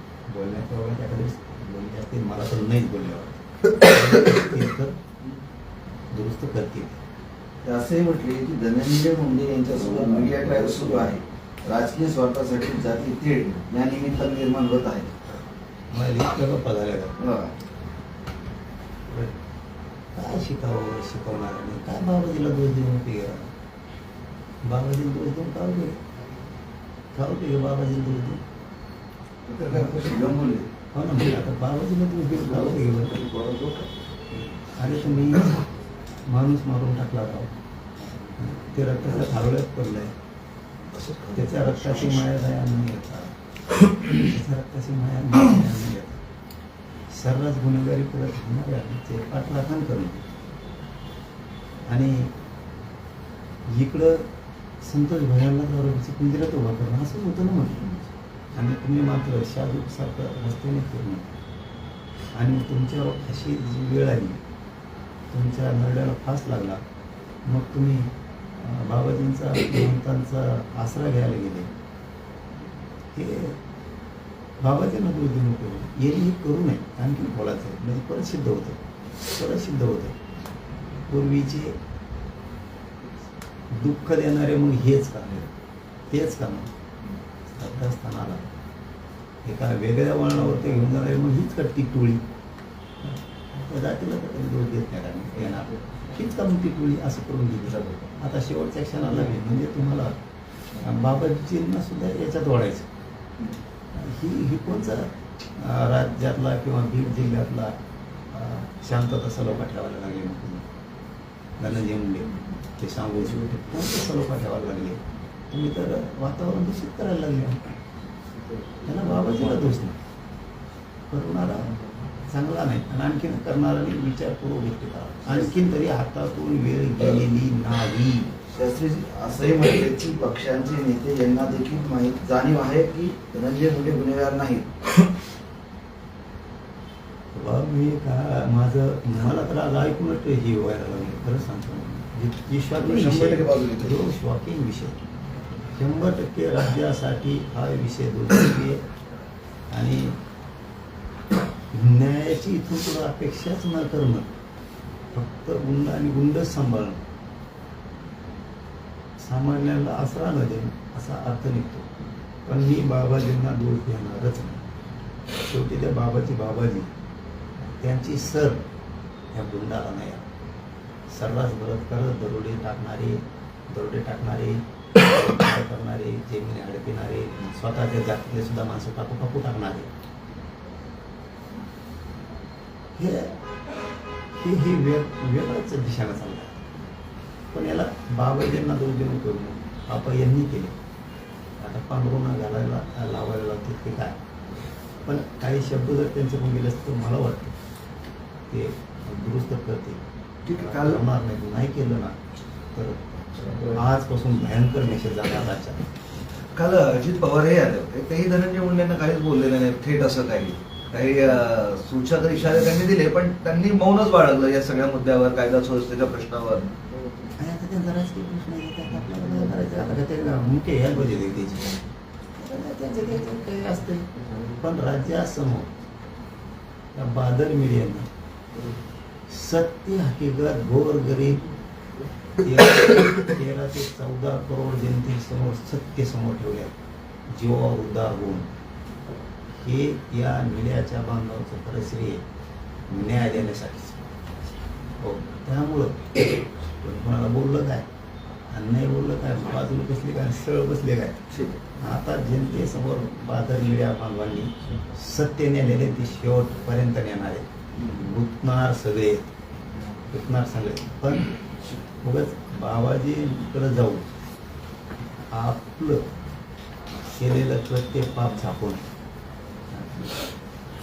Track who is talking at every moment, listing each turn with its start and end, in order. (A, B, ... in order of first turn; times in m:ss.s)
0:00.3-0:05.0 A
0:06.1-0:07.0 A
0:07.6-0:15.2 B
0:15.9-0:17.1 A
0:17.2-0:17.5 B
0:19.1-0:19.3 A
0:20.1-0:23.5 A
0:24.6-0:26.1 A
0:27.1-0:28.4 A
0:29.5-0:30.7 B
0:29.7-0:30.0 A
0:29.8-0:30.3 C
0:30.9-0:33.3 A
0:32.3-0:33.9 B
0:34.3-0:35.6 A
0:36.2-0:37.5 A
0:38.4-0:40.1 A
0:40.9-0:42.1 C
0:41.3-0:43.4 A
0:44.0-0:46.2 A
0:47.1-0:50.3 A
0:51.8-0:52.3 A
0:53.7-0:54.3 A
0:54.8-1:01.3 A
1:02.3-1:04.4 A
1:05.3-1:06.8 A
1:07.4-1:11.7 A
1:13.1-1:13.6 A
1:14.6-1:20.2 A
1:21.1-1:21.8 A
1:23.7-1:25.4 A
1:26.1-1:26.7 A
1:27.5-1:28.5 A
1:29.4-1:32.2 A
1:33.5-1:40.2 A
1:40.8-1:42.9 A
1:43.9-1:47.8 A
1:48.3-1:50.7 A
1:51.6-1:57.8 A
1:58.8-2:00.0 A
2:01.1-2:01.7 A
2:02.3-2:08.3 A
2:05.3-2:05.5 B
2:08.5-2:14.7 B
2:17.3-2:25.0 A
2:22.7-2:24.0 B
2:25.7-2:28.8 A
2:29.7-2:30.2 A
2:31.7-2:34.3 A
2:35.1-2:37.0 A
2:39.2-2:41.9 A
2:42.4-2:44.6 A
2:45.4-2:46.9 A
2:47.6-2:48.6 A
2:49.3-2:50.3 A
2:51.1-2:59.9 A
3:03.0-3:03.4 A
3:04.3-3:06.6 A
3:07.5-3:10.8 A
3:11.6-3:14.2 A
3:15.0-3:17.5 A
3:18.5-3:22.2 A
3:20.4-3:21.0 C
3:22.7-3:25.8 A
3:26.5-3:36.7 C
3:37.4-3:41.8 A
3:42.4-3:45.7 A
3:46.9-3:48.1 A
3:49.3-3:51.5 A
3:52.4-3:56.7 A
3:57.3-3:58.5 A
3:59.6-4:02.2 A
4:02.9-4:04.1 A
4:05.0-4:07.9 A
4:08.5-4:19.3 A
4:20.1-4:21.3 A
4:22.0-4:24.1 A
4:25.3-4:26.1 A
4:27.2-4:28.8 A
4:29.7-4:30.1 A